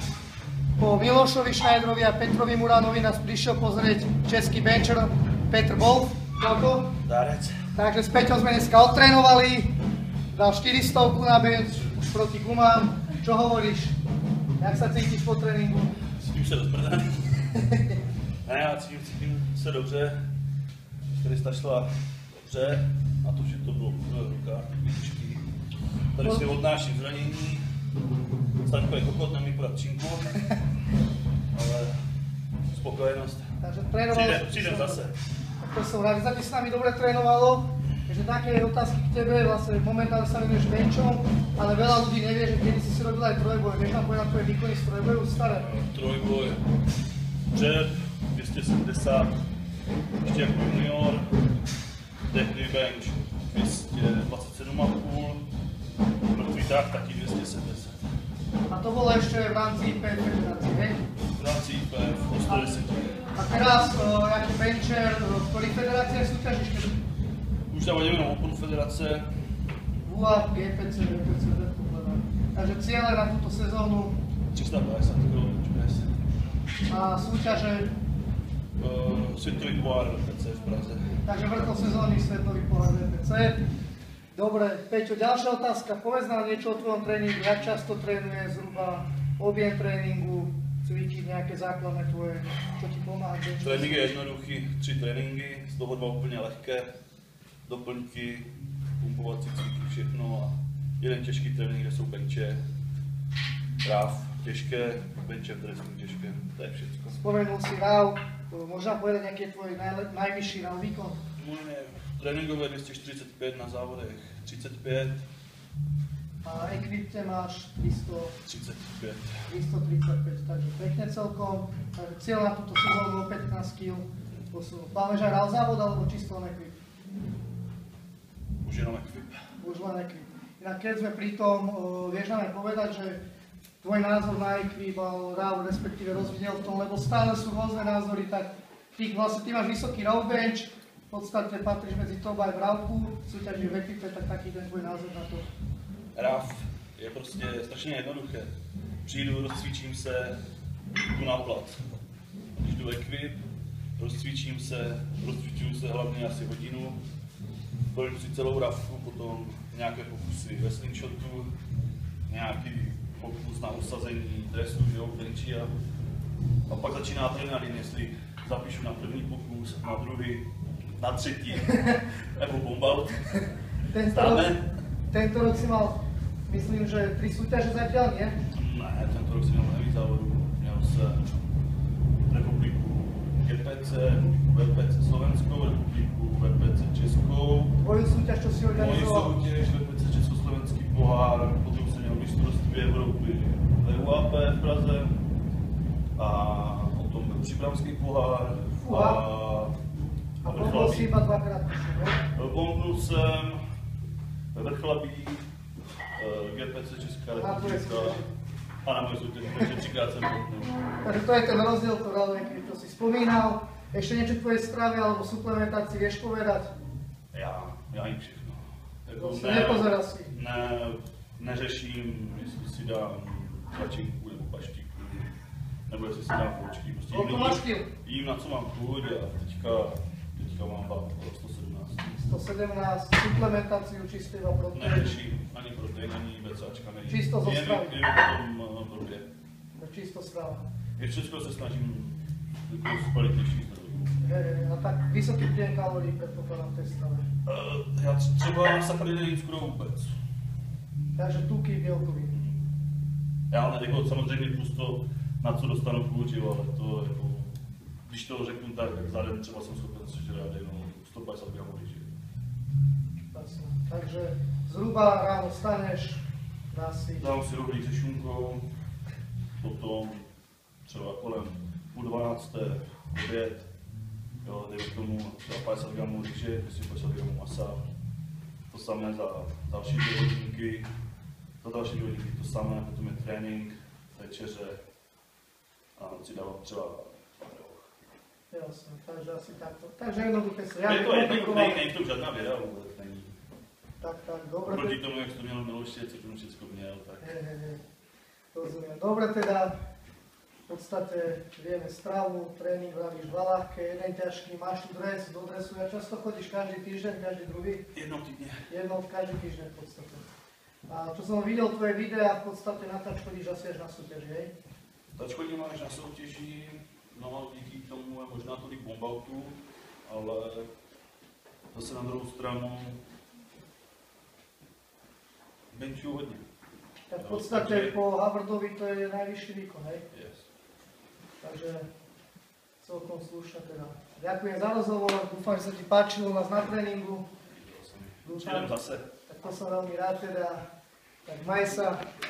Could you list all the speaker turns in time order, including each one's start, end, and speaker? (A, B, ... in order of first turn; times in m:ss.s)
0:00.8-0:06.9 A
0:07.0-0:07.6 B
0:07.7-0:09.7 A
0:10.3-0:14.0 A
0:14.6-0:16.0 A
0:16.2-0:17.6 B
0:18.4-0:20.2 B
0:21.1-0:21.9 B
0:22.4-0:25.4 B
0:26.1-0:27.6 B
0:28.6-0:30.4 B
0:31.5-0:32.0 B
0:32.7-0:33.5 B
0:33.6-0:35.1 A
0:34.1-0:35.1 B
0:35.6-0:45.7 A
0:45.6-0:46.6 B
0:47.5-0:49.3 B
0:50.2-0:51.3 B
0:52.3-0:55.4 B
0:56.3-0:58.0 B
0:58.7-1:01.0 A
1:01.4-1:03.3 B
1:03.4-1:07.0 A
1:07.7-1:09.3 B
1:10.0-1:14.2 A
1:14.5-1:16.1 B
1:16.9-1:17.9 A
1:18.8-1:21.1 B
1:21.2-1:23.6 A
1:24.3-1:34.1 A
1:33.6-1:36.9 B
1:37.6-1:42.6 B
1:43.8-1:47.2 B
1:47.1-1:51.2 A
1:51.4-1:55.2 B
1:56.4-1:58.3 A
1:58.4-1:59.4 B
1:59.5-2:06.8 A
2:08.6-2:09.4 B
2:09.6-2:13.2 A
2:13.8-2:25.5 A
2:26.1-2:28.5 B
2:29.0-2:30.4 B
2:31.1-2:31.8 B
2:32.6-2:33.4 B
2:34.0-2:37.0 B
2:37.9-2:41.5 B
2:42.3-2:45.7 B
2:46.7-2:50.5 B
2:51.0-2:53.5 B
2:51.7-2:52.0 A
2:53.9-2:54.5 A
2:54.1-2:54.6 B
2:55.1-2:58.4 A
2:58.5-3:01.4 B
3:02.3-3:07.8 B
3:07.8-3:09.4 A
3:08.7-3:15.1 B
3:16.2-3:19.8 B
3:18.8-3:19.2 A
3:20.4-3:22.2 A
3:20.4-3:21.1 B
3:22.3-3:23.6 B
3:24.5-3:25.4 B
3:26.2-3:28.2 B
3:27.3-3:28.3 A
3:28.8-3:30.8 B
3:31.0-3:36.7 A
3:37.3-3:45.3 B
3:39.2-3:40.3 A
3:45.9-3:52.0 B
3:47.1-3:47.9 A
3:52.1-3:55.1 A
3:54.7-3:59.3 B
3:57.1-3:57.9 A
3:59.8-4:00.6 A
4:01.0-4:04.2 B
4:04.2-4:07.2 A
4:07.4-4:10.1 B
4:11.2-4:12.3 A
4:12.3-4:12.6 B
4:13.5-4:17.5 B
4:18.1-4:22.1 B
4:23.3-4:27.3 A
4:27.2-4:28.6 B
4:29.6-4:30.2 B
4:30.8-4:33.7 B
4:34.4-4:37.8 B
4:38.7-4:40.9 B
4:41.6-4:44.8 B
4:46.0-4:47.9 B
4:48.5-4:51.8 A
4:50.8-4:53.3 B
4:54.0-4:55.0 A
4:54.6-4:57.2 B
4:57.2-4:57.8 A
4:58.5-4:59.7 A
5:00.7-5:07.9 A
5:07.9-5:08.6 B
5:08.7-5:10.2 A
5:10.9-5:14.5 A
5:15.1-5:20.7 B
5:21.7-5:23.0 B
5:25.7-5:26.4 B
5:27.1-5:30.0 A
5:27.2-5:27.9 B
5:30.1-5:30.4 B
5:31.4-5:31.8 A
5:32.8-5:37.3 A
5:37.4-5:39.0 B
5:38.2-5:38.7 A
5:39.3-5:40.6 A
5:41.2-5:42.0 A